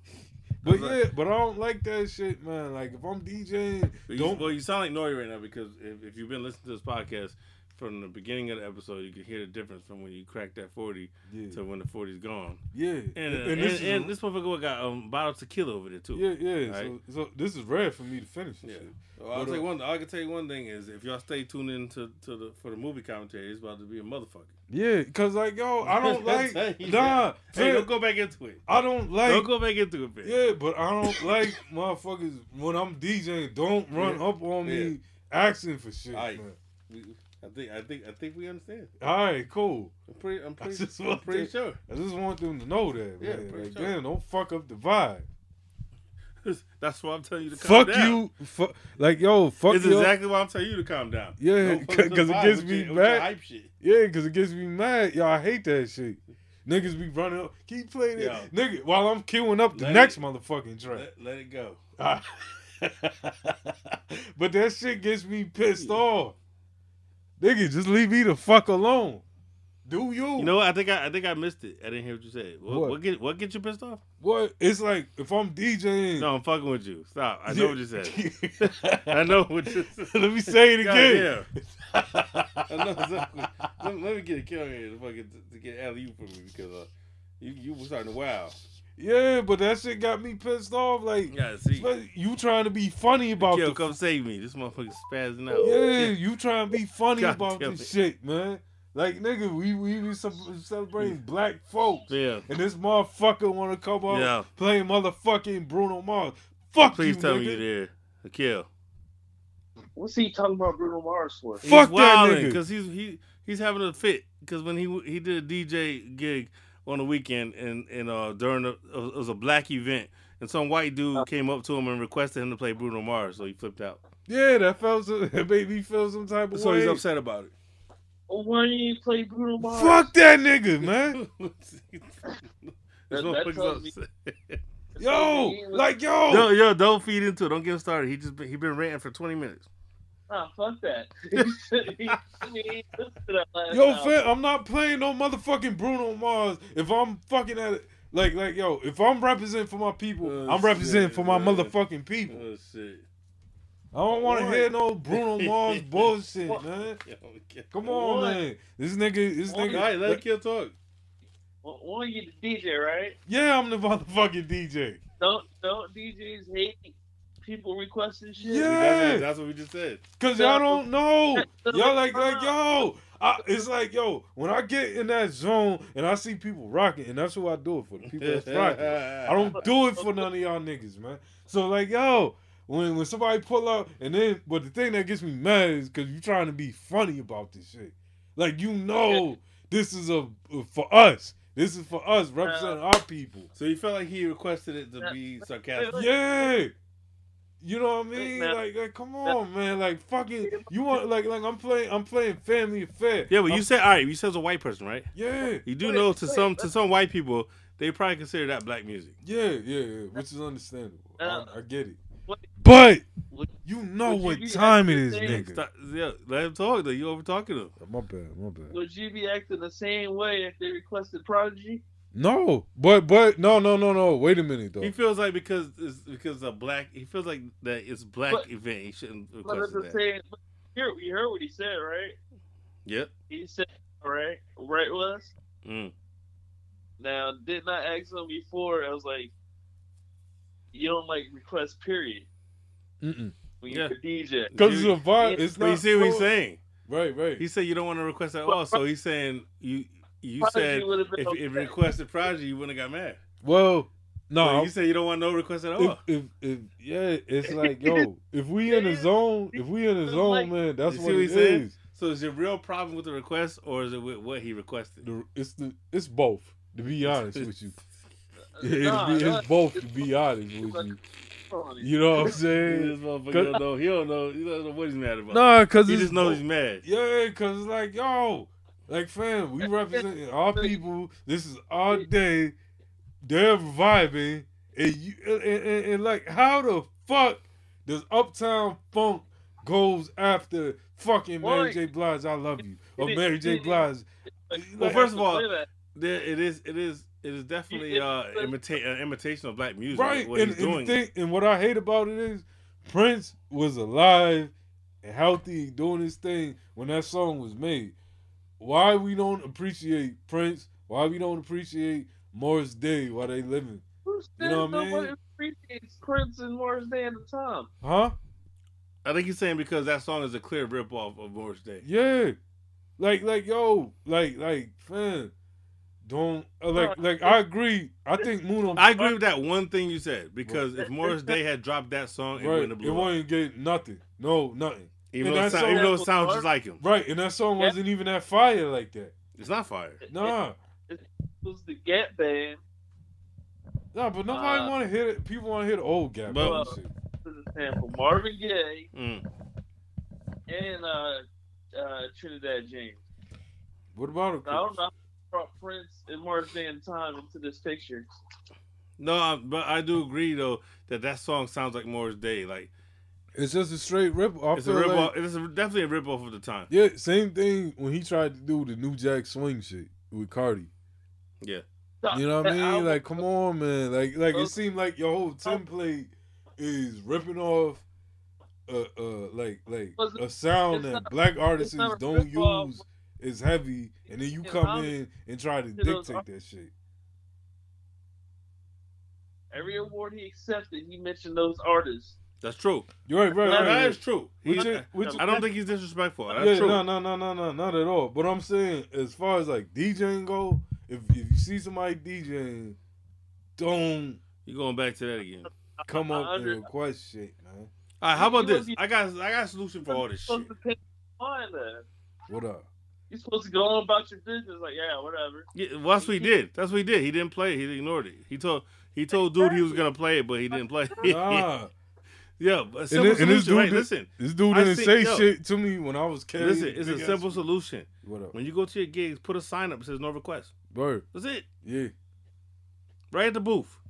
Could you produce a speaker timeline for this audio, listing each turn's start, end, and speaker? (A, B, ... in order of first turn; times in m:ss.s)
0:00.6-0:04.5 A
0:00.6-0:01.0 B
0:04.1-0:12.6 B
0:11.3-0:11.6 A
0:12.7-0:14.1 A
0:13.2-0:16.9 B
0:16.1-0:19.7 A
0:18.6-0:24.6 B
0:24.7-0:27.9 A
0:25.8-0:28.6 B
0:28.7-0:29.5 A
0:29.2-0:30.4 B
0:30.2-0:36.6 A
0:34.0-0:35.0 B
0:36.1-0:38.9 B
0:39.0-0:39.9 A
0:40.1-0:41.8 B
0:40.6-0:45.3 A
0:43.2-0:44.0 B
0:46.4-0:48.2 B
0:47.5-0:50.1 A
0:49.7-0:53.7 B
0:51.4-0:53.3 A
0:53.8-1:01.1 A
0:58.2-0:58.5 B
0:59.8-1:00.2 B
1:00.9-1:01.8 B
1:02.0-1:06.4 A
1:07.4-1:09.2 A
1:09.9-1:10.5 A
1:10.4-1:14.0 B
1:12.7-1:13.0 A
1:14.2-1:16.3 A
1:16.2-1:21.5 B
1:17.5-1:23.7 A
1:22.7-1:28.6 B
1:29.0-1:34.0 A
1:31.3-1:31.9 B
1:33.4-1:36.2 B
1:35.6-1:47.6 A
1:37.2-1:37.9 B
1:42.1-1:42.5 B
1:44.1-1:44.5 B
1:46.9-1:48.7 B
1:50.0-1:51.6 C
1:51.6-1:52.6 A
1:51.6-2:04.0 B
2:04.3-2:07.0 A
2:06.5-2:07.5 B
2:08.3-2:10.1 C
2:09.6-2:11.2 A
2:11.1-2:14.6 B
2:13.1-2:13.9 C
2:15.0-2:15.9 C
2:15.0-2:16.5 A
2:16.3-2:19.7 B
2:20.3-2:24.3 C
2:22.1-2:22.4 B
2:23.7-2:32.4 A
2:30.2-2:31.8 B
2:32.3-2:33.1 B
2:33.9-2:37.0 A
2:34.1-2:34.7 C
2:35.1-2:36.1 B
2:37.0-2:37.7 B
2:37.7-2:40.2 A
2:37.8-2:38.4 C
2:39.5-2:39.9 C
2:39.7-2:40.8 B
2:41.6-2:43.2 C
2:43.3-2:45.0 A
2:45.2-2:48.7 C
2:48.4-2:49.3 A
2:48.6-2:50.0 B
2:50.2-3:13.5 A
2:50.4-2:50.8 C
2:51.4-2:52.6 C
2:58.0-2:59.6 B
2:59.5-3:00.2 C
3:08.9-3:09.2 C
3:12.4-3:12.8 C
3:13.5-3:16.0 B
3:15.8-3:16.5 C
3:15.9-3:16.7 A
3:17.6-3:23.7 A
3:18.2-3:18.6 C
3:20.4-3:20.7 C
3:23.3-3:25.1 B
3:25.1-3:25.6 A
3:25.6-3:29.2 B
3:25.8-3:26.7 C
3:29.2-3:32.0 A
3:31.2-3:31.5 C
3:32.6-3:33.0 A
3:33.6-3:35.6 A
3:34.0-3:35.4 C
3:35.2-3:37.7 B
3:37.8-3:38.8 A
3:38.7-3:41.8 C
3:42.1-3:44.9 A
3:44.8-3:50.0 B
3:49.4-3:52.2 C
3:52.9-3:53.1 B
3:53.3-3:55.3 C
3:55.6-3:55.9 B
3:57.0-3:59.3 C
4:00.7-4:02.3 C
4:03.0-4:03.4 A
4:03.6-4:04.5 C
4:03.7-4:03.9 B
4:04.5-4:05.0 B
4:04.6-4:06.3 A
4:05.6-4:06.6 B
4:06.9-4:07.4 A
4:07.4-4:13.2 B
4:08.5-4:08.8 C
4:10.4-4:11.8 C
4:13.4-4:14.7 A
4:14.4-4:16.0 B
4:15.8-4:21.8 A
4:17.5-4:18.0 C
4:18.7-4:20.5 C
4:20.9-4:25.1 B
4:25.0-4:27.8 A
4:27.0-4:27.5 B
4:28.6-4:30.1 C
4:28.6-4:31.0 A
4:30.6-4:31.0 C
4:31.5-4:32.4 C
4:31.8-4:33.6 A
4:32.6-4:36.8 B
4:35.3-4:42.6 A
4:39.6-4:40.7 C
4:43.2-4:55.1 A
4:51.4-4:51.8 C
4:53.0-4:53.9 C
4:54.5-4:55.7 C
4:54.8-5:01.0 B
4:57.7-4:58.5 C
4:59.9-5:04.5 A
5:05.0-5:07.9 A
5:08.6-5:13.8 A
5:14.0-5:17.7 C
5:14.4-5:15.1 A
5:17.8-5:18.2 A
5:19.0-5:21.8 B
5:21.8-5:22.4 A
5:23.0-5:25.3 A
5:26.0-5:29.1 A
5:26.7-5:27.4 C
5:28.8-5:33.1 B
5:31.0-5:31.3 C
5:32.4-5:35.9 A
5:35.1-5:36.8 B
5:35.5-5:36.5 C
5:36.8-5:39.1 A
5:39.4-5:40.0 B
5:40.0-5:40.4 C
5:40.1-5:40.6 A
5:40.9-5:42.6 C
5:43.9-5:46.9 A
5:44.3-5:44.8 C
5:46.3-5:46.6 B
5:46.4-5:48.9 C
5:48.9-5:49.3 B
5:50.5-5:53.0 C
5:53.9-5:54.7 A
5:54.4-5:58.1 C
5:59.0-6:02.7 B
6:03.4-6:05.1 A
6:04.5-6:06.7 B
6:06.7-6:10.7 A
6:12.0-6:13.2 C
6:12.1-6:17.8 A
6:18.7-6:26.7 A
6:20.0-6:22.8 C
6:24.4-6:24.9 C
6:25.8-6:26.2 C
6:29.5-6:32.2 C
6:32.4-6:32.9 B
6:33.1-6:35.4 A
6:33.4-6:36.9 B
6:33.4-6:35.4 C
6:36.3-6:42.8 A
6:43.6-6:44.2 A
6:44.4-6:45.5 B
6:45.5-6:46.7 C
6:45.9-6:47.7 A
6:48.0-6:50.5 B
6:48.1-6:48.8 C
6:49.9-6:51.9 C
6:52.3-6:52.7 A
6:53.1-6:56.4 C
6:55.5-7:01.5 B
6:59.1-6:59.8 C
7:00.5-7:01.1 C
7:01.0-7:01.7 A
7:02.4-7:05.3 B
7:02.9-7:07.4 A
7:06.4-7:10.6 B
7:08.0-7:08.3 A
7:10.7-7:11.1 A
7:11.1-7:11.5 B
7:11.6-7:11.9 A
7:13.1-7:13.8 B